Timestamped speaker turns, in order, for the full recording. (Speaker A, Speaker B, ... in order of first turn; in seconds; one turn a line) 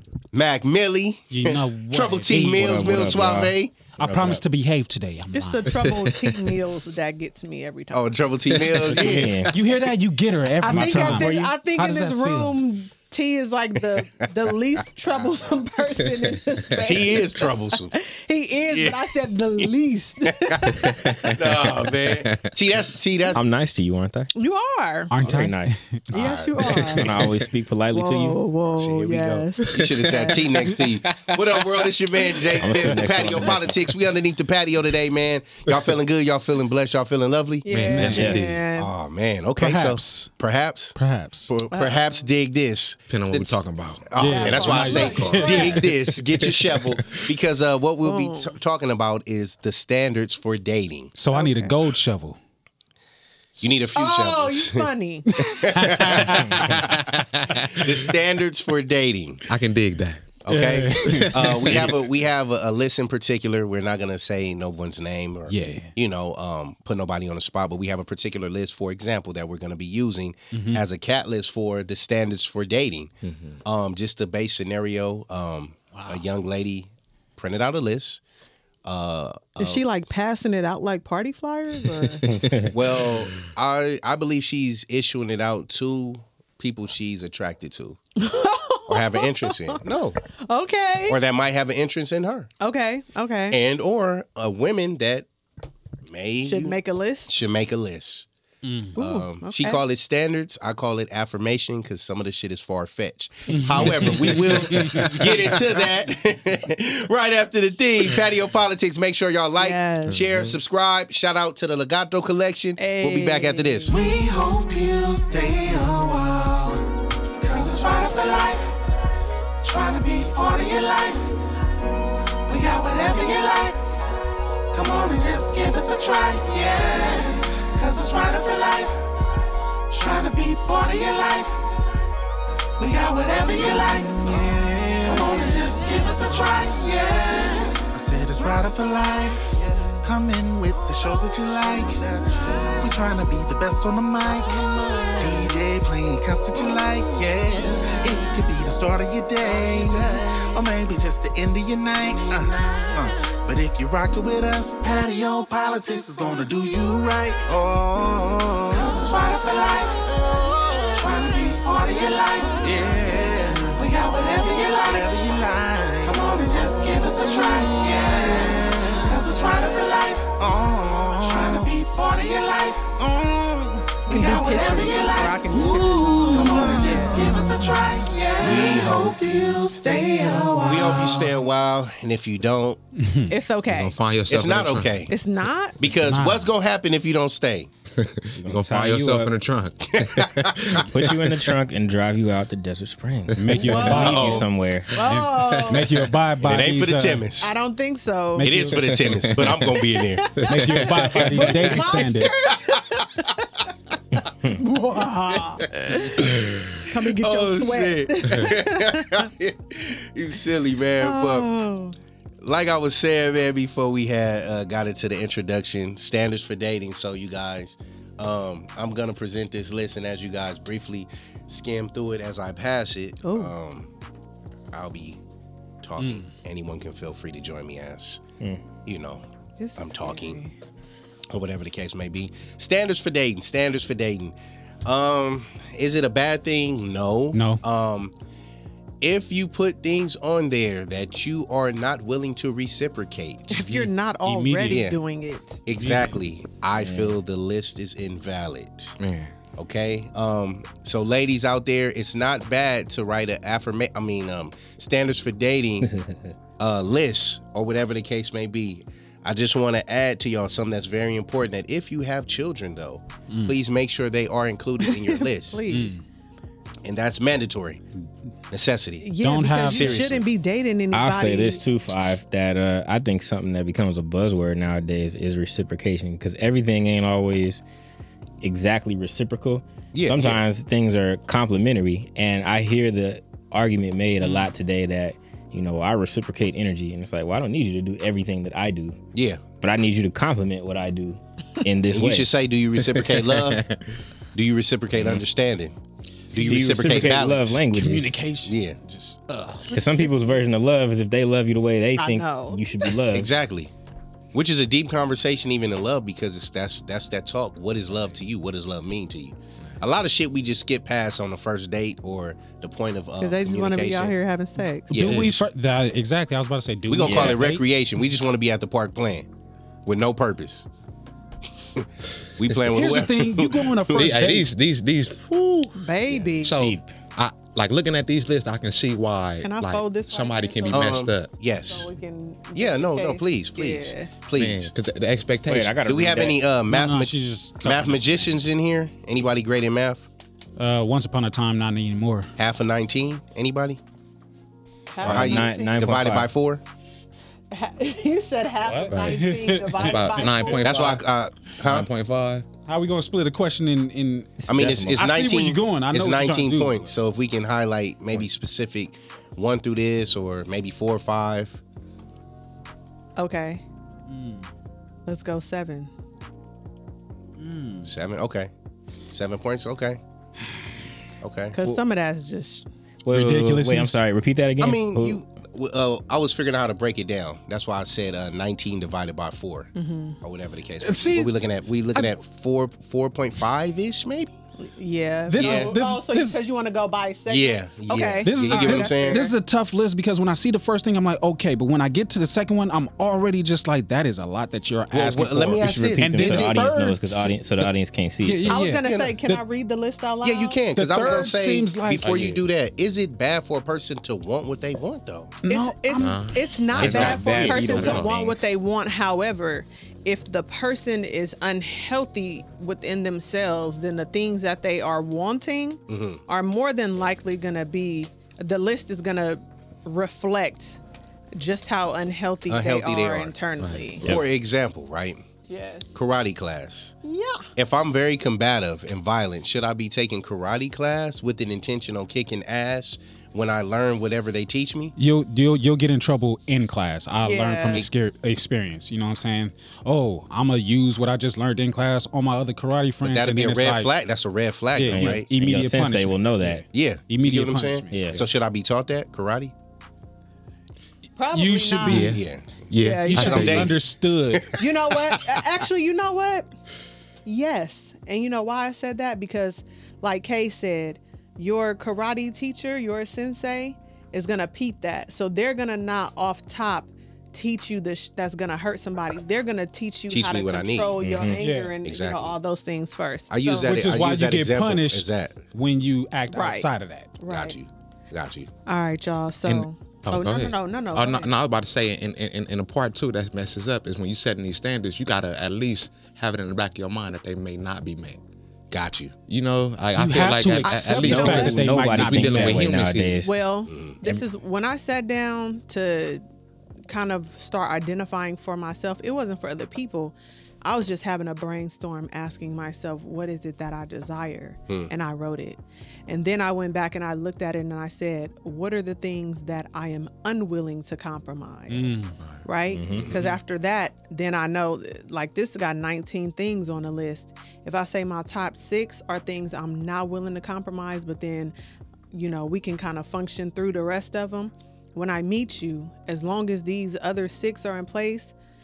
Speaker A: 0.3-3.8
Speaker B: 1.3-5.8
Speaker C: 2.5-4.4
Speaker D: 5.3-8.1
Speaker A: 7.9-9.3
Speaker E: 8.5-9.5
Speaker C: 8.8-9.5
Speaker B: 9.5-12.6
Speaker D: 10.6-21.3
Speaker C: 10.6-11.5
Speaker A: 16.8-17.9
Speaker A: 18.7-19.7
Speaker A: 20.3-23.4
Speaker E: 20.9-22.5
Speaker C: 23.3-24.3
Speaker D: 24.3-25.2
Speaker B: 25.1-26.2
Speaker C: 25.2-25.8
Speaker D: 26.1-27.1
Speaker A: 26.1-26.8
Speaker E: 26.6-27.1
Speaker C: 26.9-28.4
Speaker D: 27.9-30.5
Speaker A: 28.7-38.0
Speaker E: 29.7-31.9
Speaker C: 32.6-33.8
Speaker D: 37.6-38.9
Speaker E: 37.7-38.6
Speaker B: 37.9-38.4
Speaker C: 38.1-38.4
Speaker A: 38.7-41.0
Speaker B: 39.6-40.3
Speaker B: 41.0-41.5
Speaker A: 41.5-51.1
Speaker D: 41.7-42.1
Speaker E: 43.1-45.8
Speaker B: 44.2-46.2
Speaker D: 44.2-45.8
Speaker E: 46.4-47.2
Speaker D: 48.0-48.5
Speaker B: 51.1-52.4
Speaker D: 51.3-51.7
Speaker A: 53.6-54.9
Speaker D: 53.9-56.2
Speaker B: 55.3-56.9
Speaker A: 55.4-57.1
Speaker E: 57.4-57.9
Speaker A: 57.7-59.4
Speaker E: 59.5-60.4
Speaker A: 60.5-78.2
Speaker B: 60.5-61.8
Speaker E: 61.0-62.0
Speaker B: 65.5-65.9
Speaker B: 70.5-70.8
Speaker E: 73.3-73.5
Speaker A: 78.8-79.8
Speaker D: 79.6-82.5
Speaker A: 82.7-88.0
Speaker D: 88.2-89.8
Speaker A: 88.9-90.2
Speaker D: 90.5-91.2
Speaker A: 91.1-92.5
Speaker D: 92.6-93.6
Speaker A: 93.5-95.3
Speaker A: 96.0-98.3
Speaker D: 96.4-97.3
Speaker B: 98.6-98.9
Speaker A: 98.9-113.9
Speaker D: 99.0-99.8
Speaker B: 103.5-105.6
Speaker D: 109.6-110.2
Speaker E: 110.1-110.6
Speaker D: 112.8-114.0
Speaker F: 113.9-116.8
Speaker F: 117.4-118.8
Speaker F: 119.6-121.3
Speaker F: 122.5-123.8
Speaker F: 124.7-129.1
Speaker F: 129.9-131.7
Speaker F: 132.8-181.3
Speaker D: 148.0-148.4
Speaker D: 174.1-177.4
Speaker A: 178.4-179.2
Speaker D: 180.3-180.6
Speaker A: 180.6-182.8
Speaker B: 183.0-183.3
Speaker D: 183.3-183.9
Speaker E: 183.7-185.1
Speaker A: 184.3-185.1
Speaker D: 185.1-185.8
Speaker A: 185.8-187.7
Speaker B: 186.1-186.5
Speaker E: 188.0-190.9
Speaker C: 188.3-189.3
Speaker A: 189.9-190.9
Speaker C: 190.8-194.9
Speaker B: 193.3-194.4
Speaker E: 193.5-196.0
Speaker D: 193.6-194.2
Speaker A: 194.2-194.4
Speaker D: 194.9-196.0
Speaker B: 195.0-197.3
Speaker A: 196.4-197.5
Speaker D: 197.4-198.6
Speaker B: 198.4-199.2
Speaker A: 198.4-200.9
Speaker E: 198.9-199.6
Speaker D: 200.3-203.4
Speaker B: 200.4-202.4
Speaker E: 200.5-201.7
Speaker C: 204.2-204.6
Speaker B: 204.6-205.1
Speaker D: 204.6-206.2
Speaker A: 205.6-211.5
Speaker D: 206.9-209.3
Speaker D: 211.0-211.9
Speaker A: 212.4-223.9
Speaker D: 223.2-223.5
Speaker A: 224.7-225.2
Speaker A: 225.8-228.2
Speaker B: 226.0-226.3
Speaker A: 228.8-229.2
Speaker D: 229.6-230.5
Speaker A: 229.8-230.4
Speaker A: 231.3-238.1
Speaker B: 237.3-237.6
Speaker A: 239.0-243.6
Speaker D: 243.5-245.6
Speaker B: 243.6-244.9
Speaker A: 244.7-245.0
Speaker A: 245.7-248.9
Speaker B: 245.7-246.2
Speaker C: 246.8-247.2
Speaker E: 249.0-249.3
Speaker A: 249.6-255.9
Speaker A: 256.6-265.6
Speaker D: 264.9-266.0
Speaker B: 265.7-266.0
Speaker A: 266.8-267.8
Speaker A: 268.5-269.1
Speaker D: 269.0-271.6
Speaker B: 269.2-270.0
Speaker A: 269.7-270.2
Speaker C: 270.9-277.6
Speaker C: 278.4-289.0
Speaker A: 279.9-280.4
Speaker B: 284.2-284.5
Speaker A: 289.1-289.4
Speaker C: 289.6-292.3
Speaker A: 291.9-293.6
Speaker E: 292.9-293.8
Speaker A: 294.3-295.7
Speaker A: 296.3-297.6
Speaker C: 296.3-298.1
Speaker B: 297.7-299.7
Speaker A: 298.4-298.8
Speaker C: 299.7-303.3
Speaker D: 302.0-302.9
Speaker A: 303.1-303.7
Speaker A: 304.3-314.1
Speaker D: 313.2-315.0
Speaker A: 314.9-315.4
Speaker B: 314.9-317.6
Speaker A: 316.9-319.3
Speaker C: 317.0-317.4
Speaker A: 319.9-320.7
Speaker A: 321.7-324.2
Speaker B: 322.7-324.5
Speaker E: 323.9-325.3
Speaker A: 325.3-326.1
Speaker D: 325.7-326.6
Speaker E: 326.4-331.3
Speaker C: 326.6-326.9
Speaker D: 329.4-331.1
Speaker A: 330.7-331.9
Speaker D: 331.7-334.1
Speaker A: 332.5-334.7
Speaker E: 334.4-336.2
Speaker C: 335.4-336.4
Speaker A: 335.9-340.1
Speaker B: 336.7-338.4
Speaker B: 340.6-342.3
Speaker A: 342.4-343.8
Speaker D: 344.9-345.8
Speaker A: 345.0-346.6
Speaker C: 345.0-346.3
Speaker D: 347.5-350.7
Speaker B: 348.7-350.6
Speaker E: 348.8-349.2
Speaker E: 349.7-352.5
Speaker A: 350.6-351.9
Speaker B: 352.7-356.9
Speaker C: 354.4-355.1
Speaker A: 354.5-361.6
Speaker D: 363.2-363.6
Speaker B: 364.1-364.5
Speaker D: 365.1-365.9
Speaker B: 367.4-367.9
Speaker A: 367.8-368.5
Speaker A: 369.1-370.0
Speaker A: 371.2-371.6
Speaker D: 371.5-372.7
Speaker C: 373.0-375.2
Speaker B: 373.1-374.0
Speaker A: 374.6-384.4
Speaker D: 379.8-380.2
Speaker B: 380.8-381.3
Speaker D: 384.6-389.4
Speaker B: 385.3-386.4
Speaker A: 385.4-385.7
Speaker A: 387.3-389.2
Speaker B: 388.2-397.3
Speaker A: 394.9-396.5
Speaker C: 395.5-398.6
Speaker B: 398.2-399.4
Speaker D: 398.5-401.4
Speaker A: 398.8-399.1
Speaker A: 400.2-405.4
Speaker B: 400.7-402.2
Speaker E: 402.0-402.3
Speaker B: 405.4-406.3
Speaker D: 405.5-420.8
Speaker E: 405.9-408.4
Speaker C: 406.7-408.1
Speaker B: 406.9-407.3
Speaker A: 415.9-416.2
Speaker D: 421.4-424.0
Speaker A: 422.5-423.3
Speaker E: 423.6-424.0
Speaker A: 424.0-425.2
Speaker D: 425.5-425.9
Speaker A: 425.9-426.9
Speaker D: 427.0-427.5
Speaker A: 427.6-434.9
Speaker B: 435.0-443.9
Speaker D: 437.2-437.9
Speaker A: 443.0-445.3
Speaker B: 444.8-448.2
Speaker C: 444.8-446.6
Speaker A: 446.6-449.5
Speaker C: 447.9-448.2
Speaker D: 451.1-452.1
Speaker B: 451.3-452.2
Speaker E: 451.8-453.8
Speaker A: 452.1-452.4
Speaker D: 452.8-453.7
Speaker B: 453.0-454.6
Speaker A: 453.3-453.8
Speaker A: 454.3-455.6
Speaker D: 454.5-456.5
Speaker D: 457.2-473.9
Speaker A: 470.1-471.0
Speaker C: 471.0-471.4
Speaker B: 471.3-471.8
Speaker A: 471.8-472.4
Speaker A: 473.3-475.4
Speaker B: 473.6-477.1
Speaker D: 476.3-477.6
Speaker A: 477.3-478.5
Speaker D: 478.6-481.3
Speaker E: 479.4-488.2
Speaker A: 488.7-489.1
Speaker E: 489.3-493.2
Speaker B: 489.9-492.8
Speaker D: 490.6-491.6
Speaker C: 491.0-493.3
Speaker D: 493.2-496.2
Speaker A: 493.7-494.0
Speaker D: 496.9-521.5
Speaker B: 511.7-512.2
Speaker C: 512.7-513.1
Speaker A: 512.9-513.2
Speaker D: 522.1-528.3